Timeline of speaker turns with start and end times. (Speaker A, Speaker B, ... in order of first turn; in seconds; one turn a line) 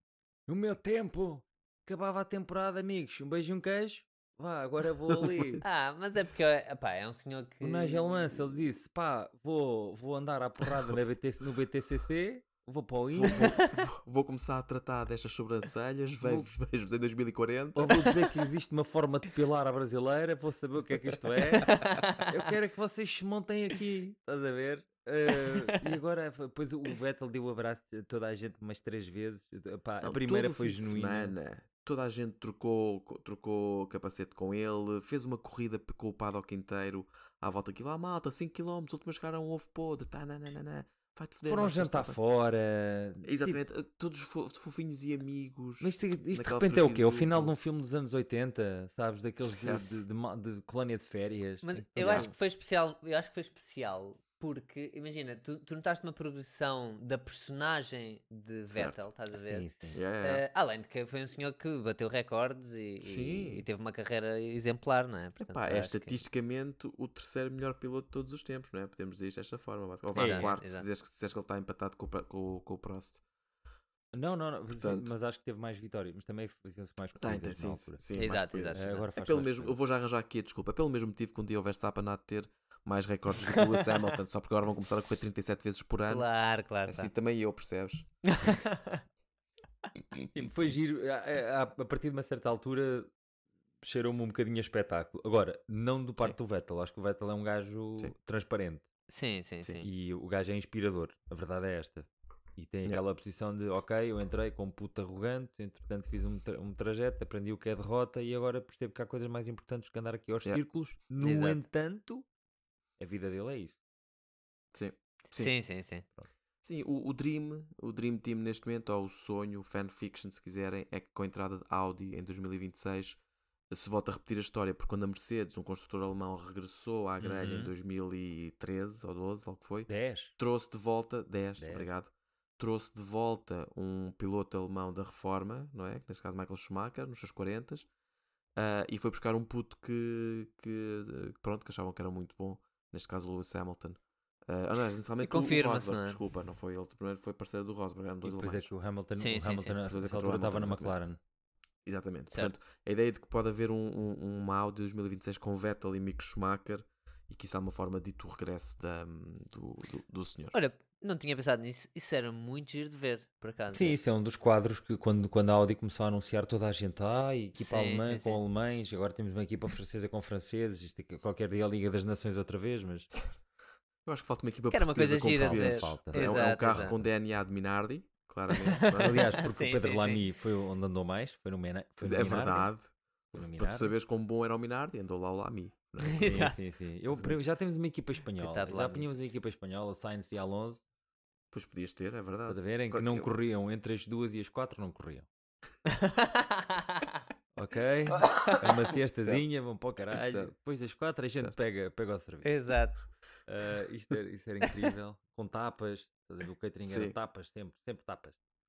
Speaker A: 0.5-5.6
Speaker B: 5.1-5.6
Speaker C: 5.6-8.2
Speaker A: 7.6-13.5
Speaker B: 13.1-18.1
Speaker A: 16.2-16.5
Speaker A: 17.7-31.3
Speaker C: 21.6-22.3
Speaker C: 25.5-25.8
Speaker B: 30.0-42.2
Speaker A: 41.4-43.6
Speaker B: 43.2-47.5
Speaker A: 45.8-52.3
Speaker B: 49.5-50.0
Speaker C: 51.6-59.7
Speaker B: 52.0-52.3
Speaker B: 58.7-59.0
Speaker A: 59.3-60.0
Speaker B: 59.9-60.4
Speaker C: 60.2-66.2
Speaker B: 63.0-63.6
Speaker B: 65.4-73.2
Speaker A: 70.1-70.6
Speaker C: 70.2-70.8
Speaker A: 74.1-78.0
Speaker B: 74.8-75.1
Speaker B: 77.2-86.3
Speaker C: 78.2-79.1
Speaker A: 78.7-79.8
Speaker C: 83.5-83.9
Speaker C: 86.1-87.1
Speaker B: 86.8-88.1
Speaker C: 88.2-89.0
Speaker A: 90.3-93.1
Speaker A: 93.8-98.8
Speaker C: 99.1-99.8
Speaker B: 99.6-99.9
Speaker A: 99.8-112.2
Speaker C: 111.2-111.6
Speaker A: 113.0-113.8
Speaker B: 114.7-115.5
Speaker C: 115.3-116.0
Speaker B: 116.6-123.2
Speaker B: 123.7-137.9
Speaker A: 127.2-127.7
Speaker A: 129.9-130.3
Speaker A: 131.6-131.9
Speaker B: 138.6-148.7
Speaker C: 145.2-146.2
Speaker A: 148.2-151.2
Speaker C: 149.2-149.8
Speaker B: 149.8-150.9
Speaker B: 151.8-160.5
Speaker C: 160.5-164.0
Speaker A: 163.7-173.1
Speaker C: 167.6-168.4
Speaker B: 174.0-179.3
Speaker C: 174.7-176.9
Speaker A: 175.4-177.0
Speaker C: 178.7-180.2
Speaker A: 178.9-182.7
Speaker B: 182.0-186.6
Speaker A: 183.3-183.9
Speaker C: 186.0-186.6
Speaker A: 186.2-190.8
Speaker B: 187.1-187.4
Speaker C: 188.4-189.1
Speaker B: 191.5-193.3
Speaker A: 192.5-195.3
Speaker C: 195.9-197.1
Speaker A: 197.6-202.5
Speaker B: 198.2-199.4
Speaker B: 200.1-200.5
Speaker C: 202.4-203.0
Speaker A: 203.5-208.4
Speaker B: 206.9-207.2